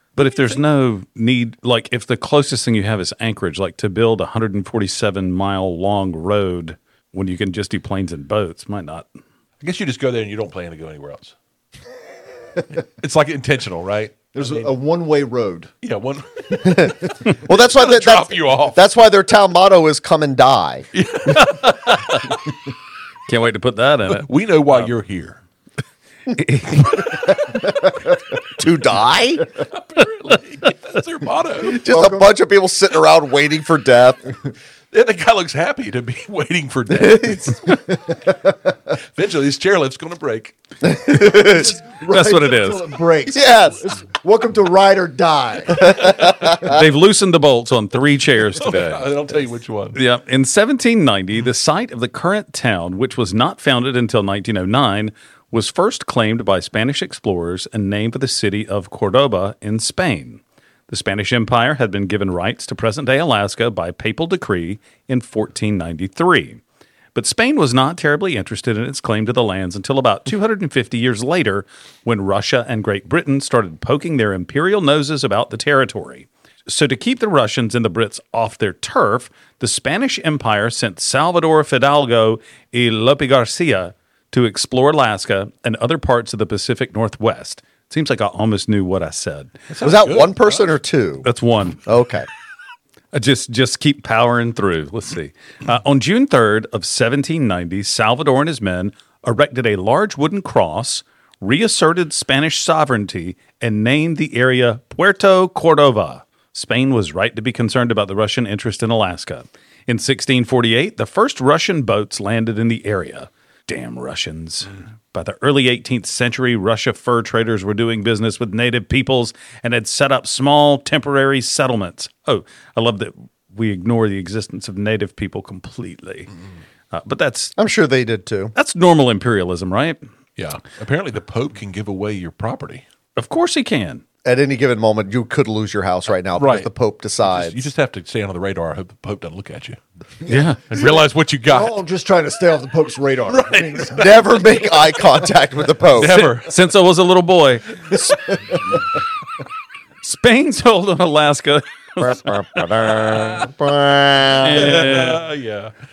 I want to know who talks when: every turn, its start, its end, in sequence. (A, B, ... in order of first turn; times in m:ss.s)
0:00.2-0:09.1 A
0:09.6-0:11.3 B
0:12.8-0:14.7 B
0:14.4-0:15.7 C
0:15.8-0:18.8 B
0:16.6-0:20.9 D
0:20.9-0:22.2 B
0:21.3-0:22.3 A
0:23.3-0:24.9 A
0:24.2-0:25.4 B
0:26.3-0:27.3 A
0:28.6-0:29.5 D
0:29.6-0:31.8 B
0:31.6-0:34.3 D
0:31.7-0:32.3 C
0:34.9-0:37.6 B
0:36.9-0:37.8 D
0:39.2-0:40.6 B
0:40.8-0:41.8 D
0:41.1-0:46.7 C
0:42.1-0:42.9 A
0:43.3-0:43.8 D
0:45.8-0:46.7 D
0:46.4-0:49.1 A
0:48.6-0:50.0 B
0:50.0-1:06.6 A
1:07.2-1:29.6 A
1:29.7-1:30.7 B
1:29.8-1:31.3 D
1:31.2-1:31.8 A
1:31.9-1:32.3 D
1:33.1-2:06.3 A
2:06.9-2:07.6 A
2:07.6-2:08.5 D
2:08.6-2:10.0 A
2:10.4-2:12.8 B
2:13.2-2:14.0 A
2:14.2-2:17.7 D
2:16.4-2:16.7 B
2:17.2-2:19.8 B
2:20.3-2:20.8 A
2:20.3-2:24.5 C
2:20.7-2:21.8 B
2:23.3-2:24.3 B
2:23.9-2:26.2 D
2:26.0-2:26.5 B
2:26.0-2:27.8 A
2:27.9-2:28.6 C
2:30.0-2:32.6 A
2:32.0-2:34.9 D
2:34.4-2:35.2 A
2:34.5-2:35.7 B